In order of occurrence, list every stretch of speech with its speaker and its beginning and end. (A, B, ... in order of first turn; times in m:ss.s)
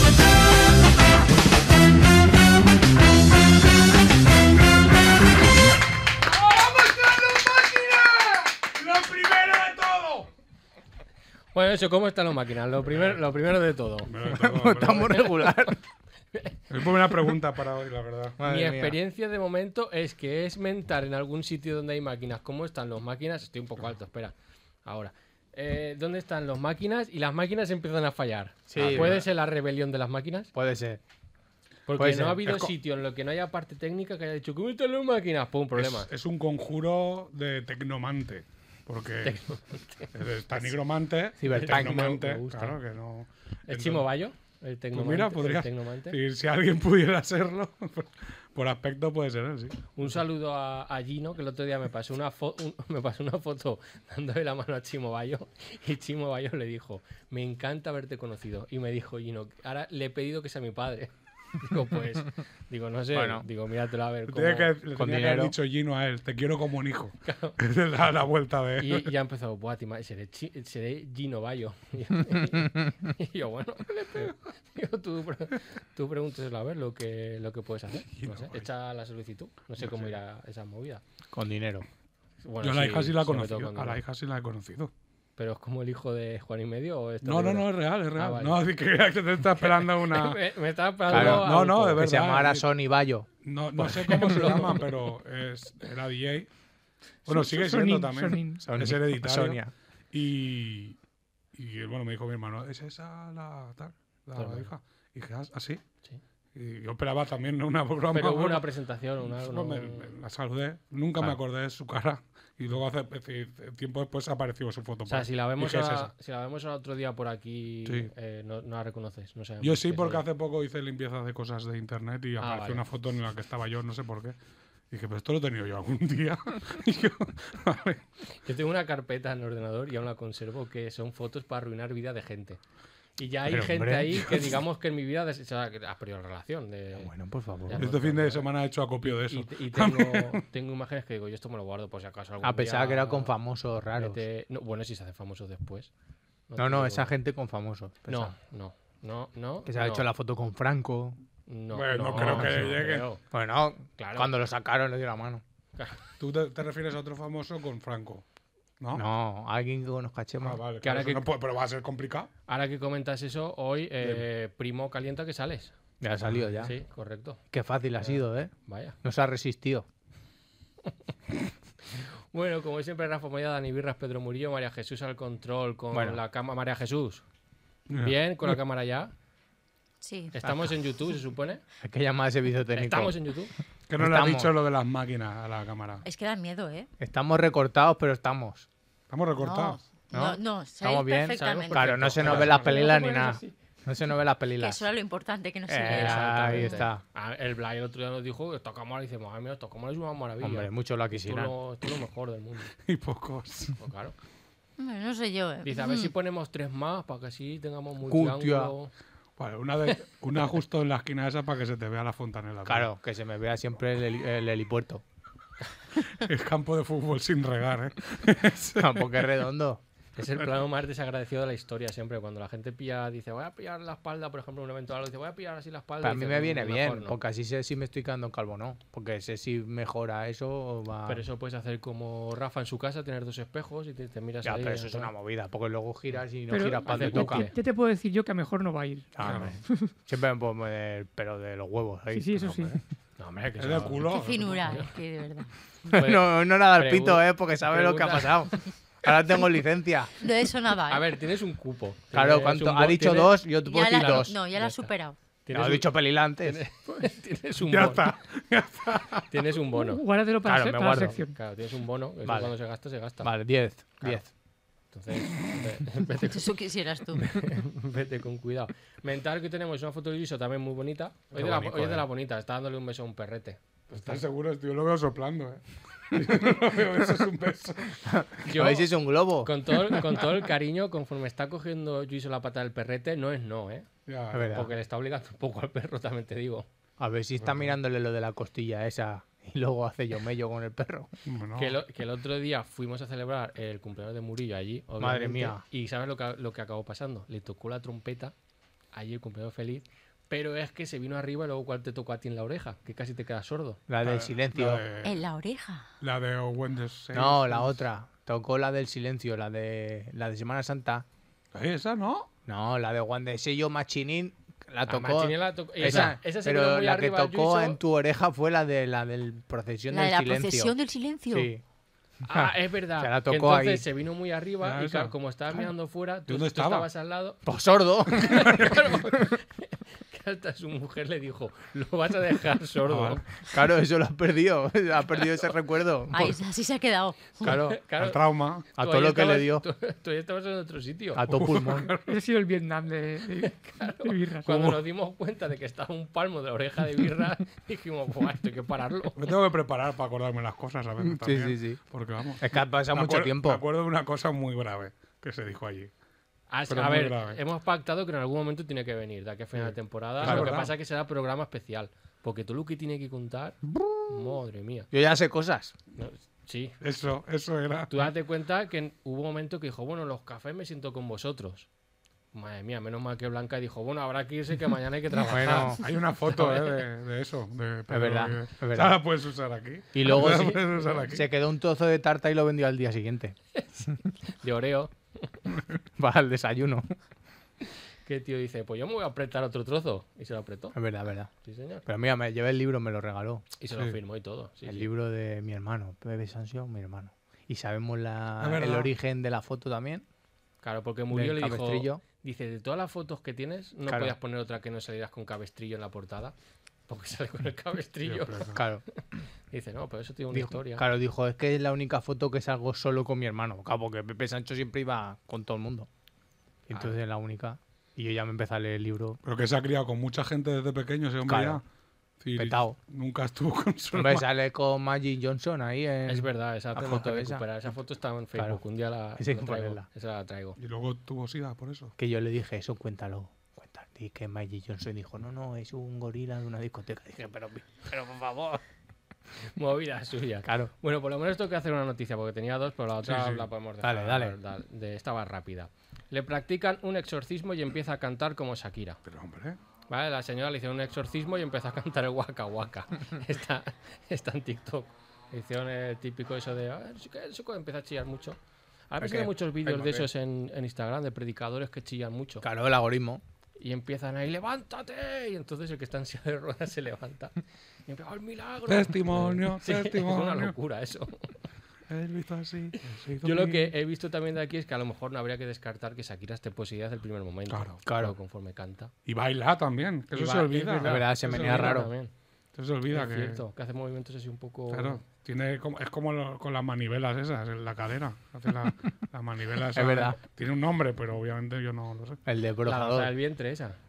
0:06.2-0:10.3 A
0:11.5-0:14.1 B
0:14.0-0:15.4 A
0:14.2-0:15.8 C
0:14.9-0:15.7 B
0:16.3-0:17.3 B
0:16.7-0:18.4 A
0:18.4-0:19.0 C
0:18.4-0:30.5 B
0:28.7-0:29.2 C
0:28.7-0:29.3 A
0:30.5-0:31.0 C
0:31.9-0:36.1 B
0:31.9-0:32.6 C
0:32.4-0:32.7 A
0:35.7-0:39.4 A
0:39.2-0:40.1 B
0:40.1-0:44.1 A
0:41.4-0:42.5 C
0:41.5-0:42.8 B
0:43.7-0:46.2 B
0:44.9-0:50.2 A
0:49.9-1:04.7 B
1:03.1-1:03.4 C
1:04.3-1:09.1 A
1:04.9-1:05.5 C
1:07.2-1:07.6 B
1:08.8-1:21.0 B
1:18.0-1:18.7 A
1:19.8-1:20.2 A
1:21.3-1:21.9 C
1:22.4-1:24.0 B
1:22.6-1:24.9 A
1:25.4-1:28.6 B
1:27.2-1:30.4 A
1:29.6-1:32.0 B
1:31.1-1:32.7 A
1:31.1-1:34.9 C
1:33.4-1:36.5 A
1:34.0-1:34.9 B
1:37.2-1:38.7 D
1:37.2-1:41.0 A
1:38.6-1:39.7 C
1:41.5-1:45.8 A
1:44.3-1:44.7 B
1:46.5-1:48.7 A
1:48.1-1:50.1 B
1:49.3-1:56.1 A
1:55.1-2:00.2 B
1:57.8-1:58.1 A
1:59.6-2:04.4 A
2:02.4-2:02.9 B
2:04.9-2:08.0 A
2:08.4-2:12.6 B
2:13.2-2:17.1 B
2:13.4-2:14.5 C
2:16.9-2:17.9 C
2:17.7-2:18.5 B
2:17.7-2:20.4 A
2:19.0-2:23.4 B
2:22.4-2:24.2 C
2:24.0-2:25.9 B
2:26.5-2:27.1 B
2:26.6-2:28.3 C
2:28.1-2:30.1 B
2:29.6-2:31.2 C
2:31.5-2:33.2 B
2:31.7-2:33.1 A
2:32.1-2:35.4 C
2:34.0-2:34.3 B
2:35.8-2:36.0 B
2:36.2-2:38.2 A
2:38.8-2:39.0 A
2:38.9-2:40.6 C
2:40.4-2:42.3 A
2:40.8-2:41.3 B
2:42.5-2:45.7 B
2:46.0-2:46.7 C
2:46.6-2:47.4 B
2:47.5-2:49.8 C
2:48.0-2:49.0 B
2:52.0-2:57.2 B
2:55.9-2:56.2 C
2:57.9-2:58.6 A
2:58.0-2:59.1 B
3:00.0-3:00.3 E
3:00.3-3:01.6 B
3:01.8-3:03.2 C
3:02.7-3:03.5 B
3:03.9-3:06.0 A
3:04.0-3:04.5 C
3:06.0-3:06.9 E
3:07.0-3:08.7 C
3:09.1-3:09.8 A
3:09.4-3:12.5 E
3:10.1-3:14.9 C
3:11.3-3:13.0 B
3:12.4-3:13.5 D
3:14.6-3:16.8 E
3:15.7-3:17.0 C
3:15.8-3:22.7 B
3:20.4-3:21.5 C
3:22.8-3:23.8 A
3:23.8-3:24.1 B
3:24.8-3:26.1 E
3:25.6-3:28.9 B
3:28.0-3:28.7 C
3:29.4-3:32.9 A
3:32.6-3:35.0 C
3:36.0-3:39.3 A
3:38.8-3:39.8 C
3:40.2-3:47.2 B
3:46.0-3:51.2 C
3:51.0-3:55.1 B
3:54.4-3:57.5 C
3:56.5-3:59.9 D
3:56.8-3:57.6 B
3:59.1-4:02.8 C
3:59.2-3:59.6 A
4:02.1-4:02.8 D
4:03.2-4:04.9 B
4:03.6-4:04.8 A
4:04.1-4:05.5 E
4:05.9-4:10.1 C
4:05.9-4:08.5 B
4:10.2-4:11.2 E
4:10.9-4:13.4 B
4:12.1-4:14.4 C
4:13.6-4:15.2 E
4:14.5-4:14.9 B
4:15.4-4:18.1 B
4:15.5-4:16.6 C
4:17.6-4:19.4 A
4:19.3-4:20.0 B
4:19.7-4:21.4 D
4:20.4-4:21.2 C
4:21.2-4:23.3 B
4:22.2-4:22.5 C
4:23.2-4:24.3 C
4:24.0-4:24.2 B
4:24.9-4:26.6 B
4:26.2-4:27.3 E
4:27.1-4:34.2 B
4:31.3-4:32.0 A
4:33.9-4:38.0 A
4:38.0-4:39.9 C
4:38.4-4:43.9 B
4:44.0-4:44.7 A
4:44.3-4:44.7 C
4:44.5-4:46.7 B
4:47.0-4:51.1 C
4:47.4-4:47.7 A
4:51.2-4:51.8 A
4:51.5-4:58.3 B
4:55.0-4:55.6 C
4:58.9-5:03.8 B
5:03.9-5:04.8 C
5:04.0-5:05.2 A
5:05.0-5:05.9 E
5:06.0-5:07.7 A
5:07.1-5:11.0 C
5:11.5-5:12.3 A
5:12.5-5:20.7 C
5:14.8-5:17.8 B
5:15.8-5:16.2 A
5:19.9-5:21.5 E
5:21.3-5:21.6 C
5:22.2-5:27.4 B
5:22.3-5:23.9 C
5:24.6-5:25.1 A
5:26.3-5:26.9 A
5:27.4-5:28.7 C
5:28.1-5:33.2 B
5:28.3-5:28.8 A
5:32.8-5:33.2 A
5:33.5-5:36.4 C
5:36.1-5:37.6 E
5:37.4-5:37.8 C
5:37.4-5:38.7 A
5:37.4-5:41.2 B
5:38.7-5:39.6 C
5:41.1-5:41.9 C
5:41.3-5:42.2 A
5:42.0-5:44.7 D
5:43.4-5:49.3 B
5:49.2-5:55.9 A
5:51.0-5:51.8 C
5:52.4-5:53.6 C
5:56.5-6:04.9 B
5:56.7-5:57.4 A
5:59.6-6:00.8 A
6:00.2-6:00.7 C
6:04.9-6:05.7 C
6:05.9-6:06.8 B
6:06.8-6:08.1 A
6:07.9-6:11.7 B
6:12.3-6:16.7 B
6:15.3-6:15.8 C
6:15.8-6:21.3 A
6:17.9-6:19.0 C
6:19.9-6:23.3 C
6:20.0-6:21.1 B
6:23.5-6:25.3 B
6:26.0-6:26.8 C
6:28.0-6:30.8 B
6:30.7-6:31.3 C
6:31.4-6:31.8 B
6:31.8-6:33.4 C
6:33.6-6:34.9 B
6:34.6-6:40.0 C
6:38.4-6:38.9 A
6:40.6-6:46.3 B
6:41.1-6:42.0 C
6:43.8-6:44.1 C
6:46.9-6:49.0 B
6:48.0-6:48.6 A
6:48.5-6:48.8 C
6:49.5-6:50.9 B
6:50.3-6:55.9 C
6:56.7-6:59.2 C
6:59.2-7:01.6 A
7:01.2-7:01.6 C
7:02.2-7:04.2 A
7:02.3-7:02.8 C
7:03.9-7:07.4 C
7:06.1-7:10.6 B
7:08.3-7:08.6 C
7:09.2-7:09.8 C
7:10.6-7:11.9 A
7:12.0-7:18.6 C
7:19.6-7:29.0 B
7:20.4-7:20.7 C
7:23.0-7:23.5 A
7:23.8-7:24.4 C
7:29.0-7:29.6 A
7:29.9-7:38.4 B
7:38.9-7:42.5 B
7:39.0-7:40.1 A
7:42.4-7:43.2 C
7:43.6-7:47.3 B
7:47.9-7:51.3 B
7:48.6-7:50.5 A
7:51.9-7:53.7 A
7:53.2-7:58.9 B
7:57.5-7:57.8 A
7:57.8-7:58.1 C
7:59.0-8:01.8 A
8:00.1-8:02.1 B
8:00.8-8:01.9 C
8:02.5-8:03.4 A
8:02.9-8:05.0 B
8:04.7-8:12.2 A
8:09.7-8:10.2 C
8:12.2-8:13.1 C
8:12.6-8:13.8 B